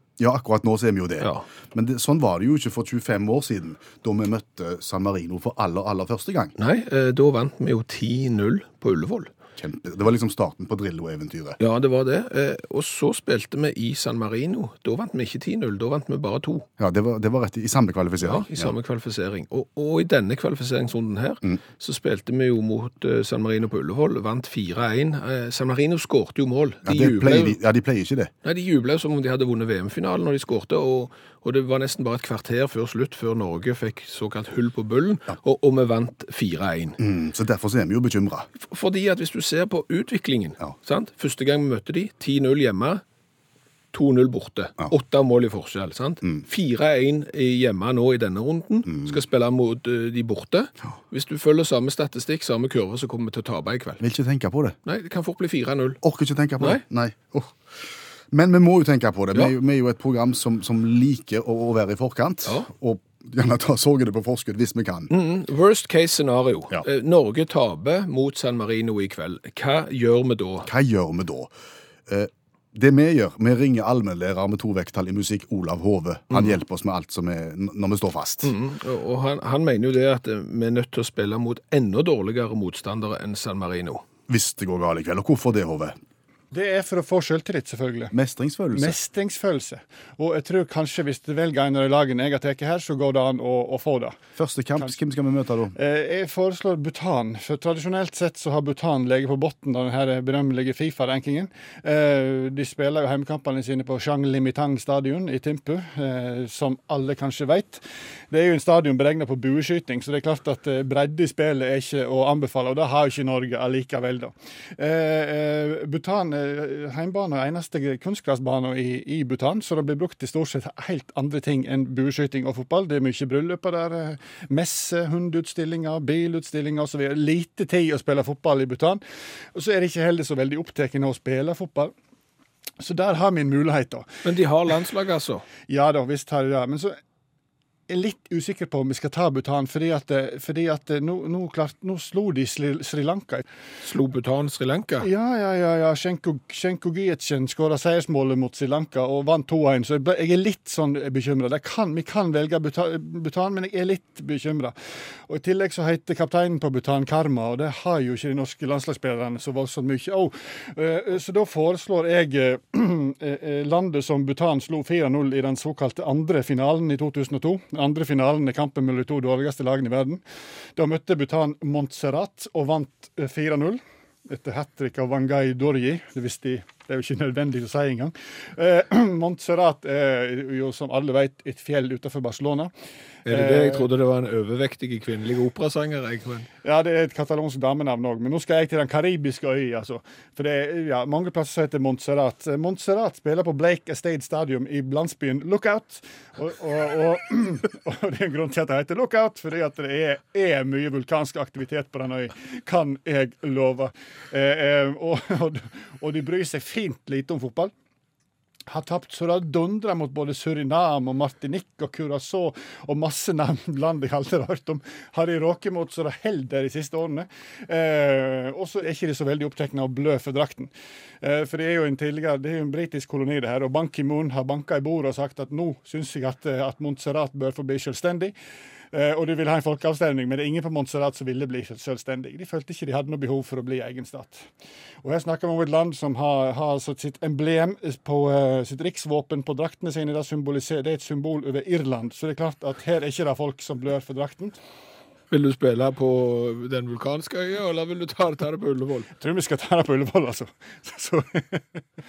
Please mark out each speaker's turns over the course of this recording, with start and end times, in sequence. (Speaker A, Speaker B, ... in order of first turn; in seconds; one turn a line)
Speaker A: 0.2-6.5
Speaker B: 1.2-1.4
Speaker B: 6.6-9.3
Speaker A: 9.6-11.6
Speaker B: 11.6-16.6
Speaker A: 16.8-18.7
Speaker B: 18.2-27.6
Speaker A: 26.8-28.3
Speaker B: 28.4-37.0
Speaker A: 37.0-38.5
Speaker B: 38.5-43.0
Speaker B: 43.9-54.0
Speaker A: 48.9-49.2
Speaker A: 54.0-54.8
Speaker B: 54.8-56.0
Speaker A: 56.0-65.1
Speaker B: 65.1-70.7
Speaker A: 70.6-71.5
Speaker A: 72.1-78.5
Speaker B: 76.3-76.6
Speaker B: 78.4-84.0
Speaker A: 84.3-86.0
Speaker C: 86.5-88.1
Speaker A: 88.1-89.0
Speaker C: 88.7-94.2
Speaker A: 94.3-95.7
Speaker C: 95.8-129.0
Speaker C: 129.5-131.9
Speaker C: 132.8-134.1
Speaker B: 134.2-135.4
Speaker C: 135.7-136.9
Speaker C: 137.9-143.4
Speaker B: 143.8-145.1
Speaker C: 145.0-170.2
Speaker C: 170.8-182.7
Speaker B: 183.2-186.5
Speaker C: 183.3-183.9
Speaker C: 186.6-207.7
Speaker C: 208.7-220.7
Speaker C: 221.2-228.3
Speaker C: 228.9-234.5
Speaker C: 235.0-244.6
Speaker B: 245.3-249.1
Speaker C: 249.2-251.8